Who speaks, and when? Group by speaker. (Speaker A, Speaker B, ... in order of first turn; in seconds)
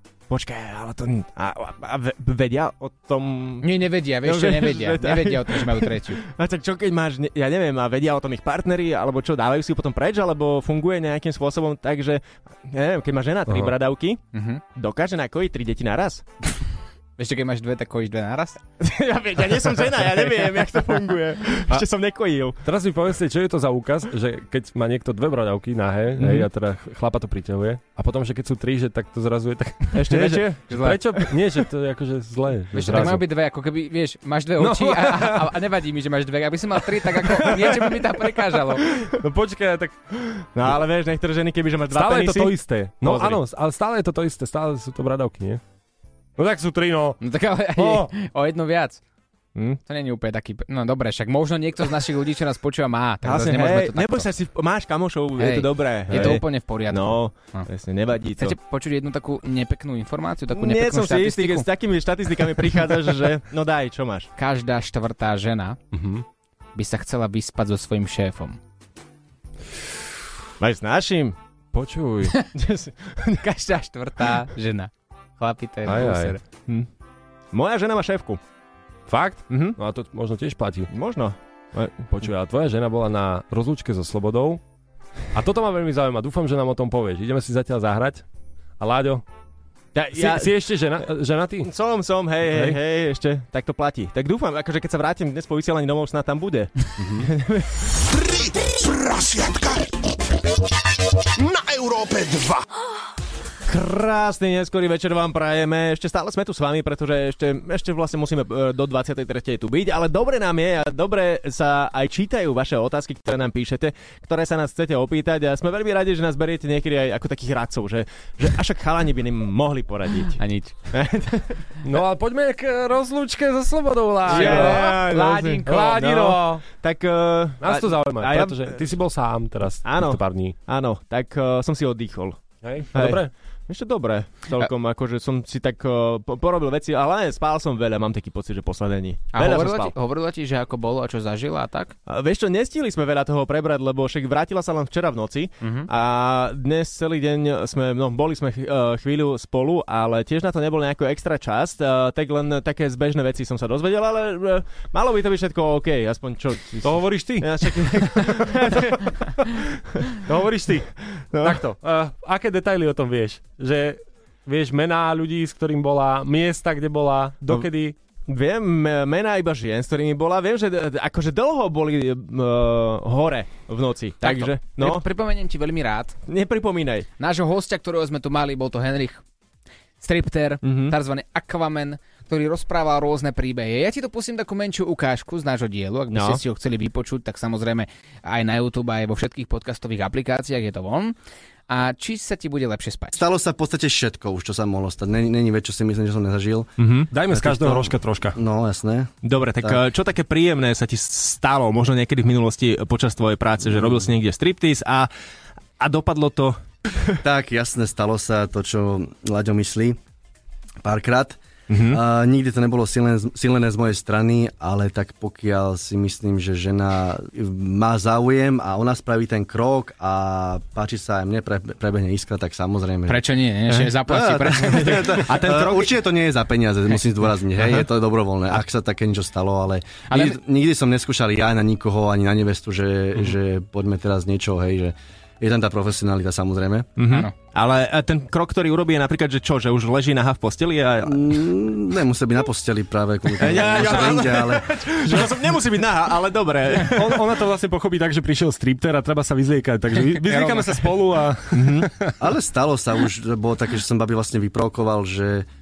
Speaker A: 0.3-14.2, 14.8-16.2, 18.8-22.6, 26.2-26.5, 29.9-31.1, 40.2-43.4, 49.5-49.8, 53.2-58.6, 60.5-64.3, 70.6-71.4, 72.5-73.4, 77.5-78.4, 79.5-79.8, 80.9-82.3, 90.0-90.6, 91.6-97.9, 103.7-120.4, 120.9-121.6, 124.3-128.8, 129.8-132.4, 132.9-139.9, 142.1-159.3, 161.3-161.6, 168.3-175.1, 176.3-177.1, 180.6-181.0, 186.1-186.4, 196.8-197.1, 199.2-205.1, 205.8-206.6, 211.7-212.0, 224.6-225.9, 227.6-227.8, 237.0-241.5, 243.4-247.3, 251.5-251.9
Speaker B: 3.6-6.2, 14.3-14.6, 17.2-18.6, 32.7-38.9, 47.2-49.0, 49.9-54.3, 55.4-57.7, 58.4-61.7, 64.4-65.8, 66.8-68.6, 73.4-76.4, 120.4-120.8, 124.3-126.6, 139.3-141.9, 145.6-145.9, 174.2-176.2, 177.2-179.2, 180.0-191.2, 191.7-193.2, 223.1-225.6, 230.1-230.4, 250.0-250.9
Speaker C: 13.5-13.7, 22.6-33.3, 34.6-35.5, 37.2-37.9, 39.0-40.0, 41.9-45.6, 46.4-47.2, 47.8-48.1, 65.9-66.2, 71.7-72.3, 75.8-76.3, 79.1-80.9, 82.2-84.6, 85.3-88.2, 88.8-89.2, 90.1-91.7, 92.4-92.8, 121.8-124.9, 125.7-126.6, 127.6-130.6, 132.6-133.3, 156.8-168.0, 197.1-198.4, 245.1-245.4, 246.7-252.2
Speaker D: 97.0-97.3, 193.1-196.7, 197.4-199.8, 207.2-210.0, 210.8-223.2, 224.1-236.9, 241.0-245.0, 252.2-255.5
Speaker E: 98.0-100.0, 101.3-102.7